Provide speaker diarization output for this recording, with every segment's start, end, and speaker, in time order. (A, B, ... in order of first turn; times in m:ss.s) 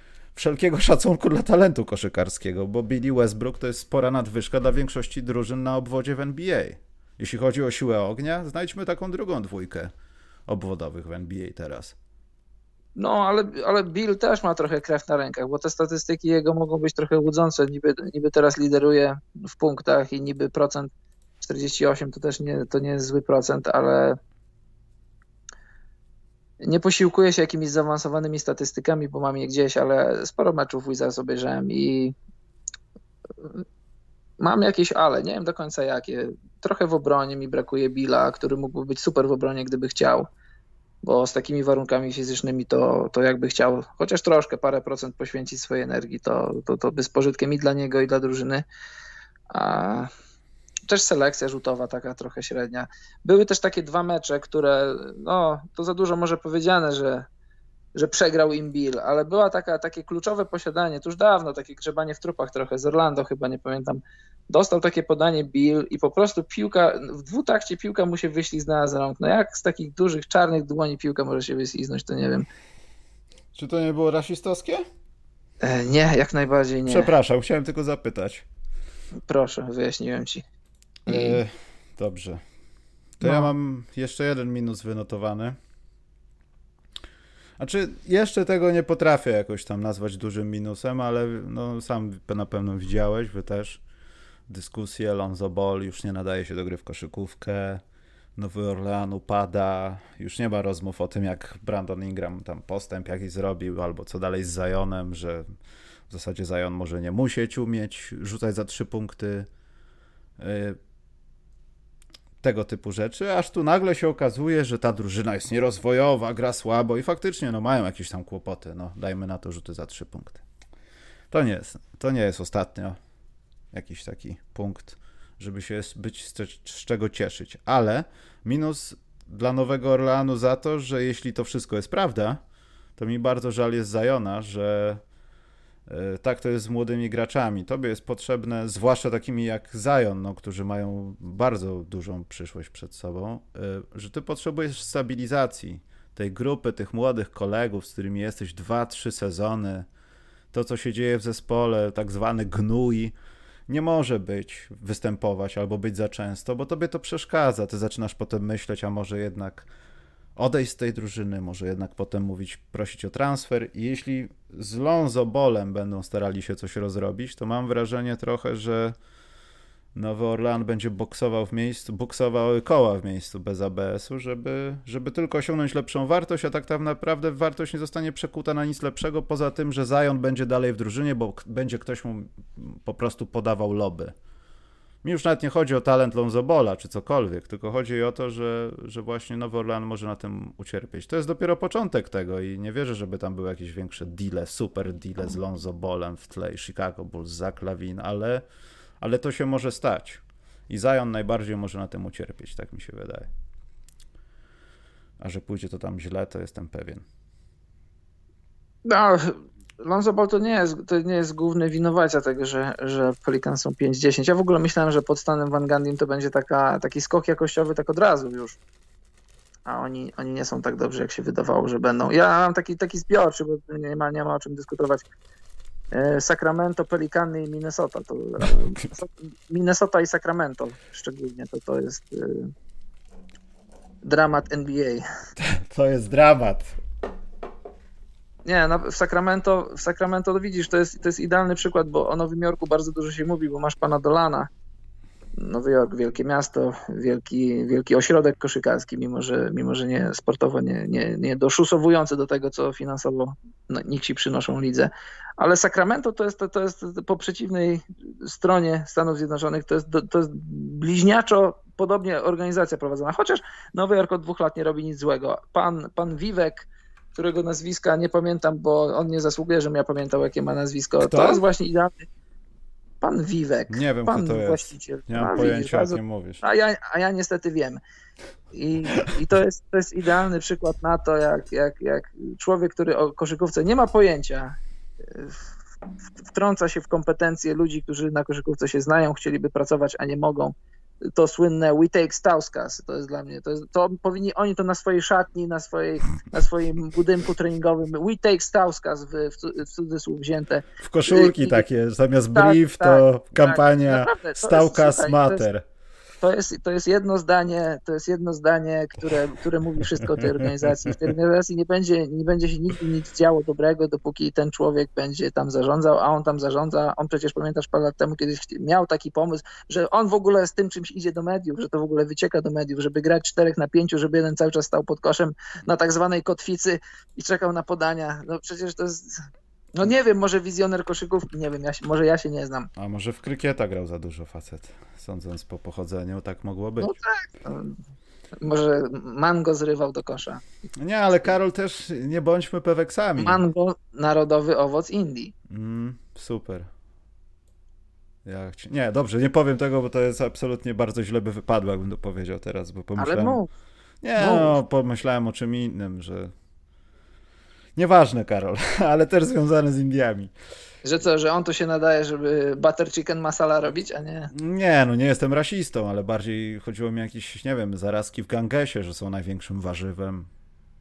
0:00.3-0:09.9 A
0:10.5-0:12.0 A
0:13.0-0:24.2 B
0:26.6-0:32.1 B
0:34.4-0:40.3 B
0:41.0-0:48.6 B
0:49.5-0:50.1 B
0:50.9-0:57.3 B
0:57.9-1:12.5 B
1:13.5-1:14.8 A
1:15.6-1:17.1 B
1:16.9-1:18.4 A
1:19.3-1:20.4 B
1:21.0-1:21.4 B
1:21.1-1:22.4 A
1:23.2-1:25.6 A
1:23.2-1:23.5 B
1:27.6-1:33.8 A
1:34.5-1:37.8 A
1:38.4-1:45.4 A
1:46.1-1:49.5 A
1:50.4-1:50.8 A
1:52.4-2:00.4 A
2:01.3-2:03.0 A
2:03.7-2:12.4 A
2:13.0-2:15.0 A
2:15.9-2:29.9 A
2:30.5-2:33.1 A
2:33.7-2:39.7 A
2:40.4-2:48.9 A
2:49.9-3:04.1 A
3:05.0-3:18.4 A
3:19.0-3:23.3 A
3:25.2-3:27.0 A
3:28.8-3:38.6 B
3:39.7-3:45.0 B
3:45.9-3:52.5 B
3:54.0-3:55.0 B
3:55.4-3:56.7 A
3:58.4-4:04.5 B
4:05.4-4:32.1 B
4:31.0-4:31.4 A
4:33.0-4:37.8 B
4:33.7-4:36.4 A
4:38.5-4:44.5 B
4:45.1-4:45.4 B
4:46.2-5:01.6 B
5:00.8-5:05.6 A
5:02.3-5:05.4 B
5:06.2-5:29.2 B
5:09.9-5:11.0 A
5:29.7-5:32.7 B
5:32.8-5:36.9 A
5:36.8-5:37.8 B
5:38.4-5:40.4 B
5:40.8-5:43.4 A
5:43.2-5:45.3 B
5:45.5-5:46.7 A
5:48.2-5:53.4 A
5:53.0-5:53.5 B
5:54.0-5:56.3 A
5:54.2-5:54.6 B
5:57.8-6:00.3 A
6:00.8-6:04.3 B
6:04.3-6:10.3 A